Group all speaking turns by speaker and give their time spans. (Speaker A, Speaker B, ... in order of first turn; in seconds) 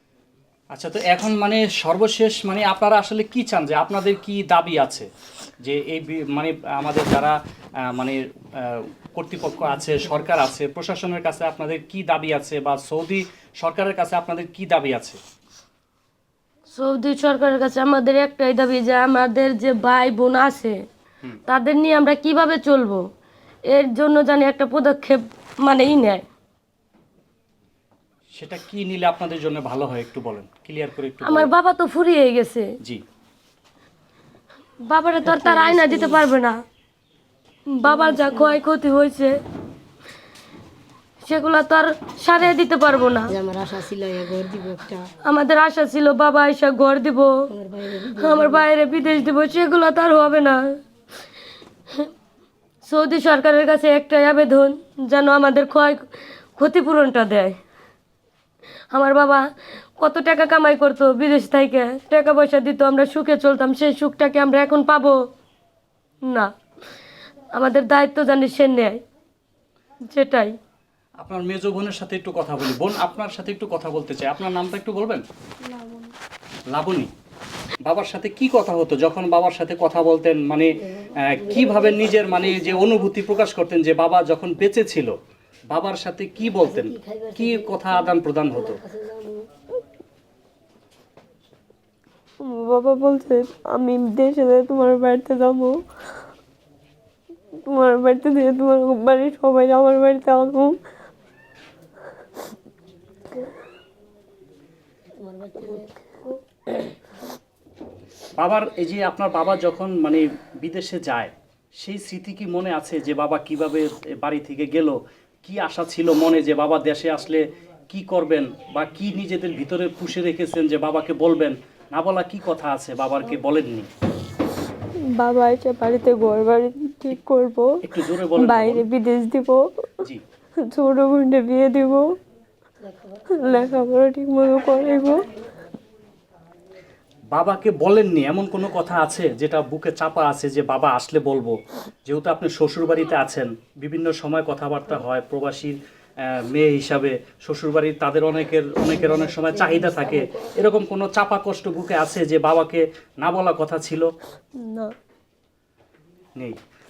Speaker A: 0.7-5.1, 5.6-15.2, 28.4-31.5, 71.2-75.2, 76.7-77.1, 77.8-85.2, 85.7-88.8, 108.4-123.9, 127.8-128.9, 137.3-154.1
Speaker B: 16.7-20.8, 21.5-23.0, 23.7-26.2, 31.2-32.7, 34.9-36.6, 37.7-39.4, 41.2-43.4, 45.2-47.4, 48.1-50.6, 52.9-57.6, 58.9-59.5, 60.0-65.2, 66.2-66.5, 67.5-69.0, 70.1-70.6, 99.1-99.4, 154.6-154.9
Speaker C: 35.2-36.2, 37.9-38.6, 43.3-45.1, 47.5-48.6, 80.8-83.0, 86.5-89.5, 105.2-106.8, 132.8-133.8, 148.9-150.5
Speaker D: 92.6-95.7, 97.7-100.7, 125.2-127.8, 128.4-129.6, 130.7-132.1, 133.4-135.2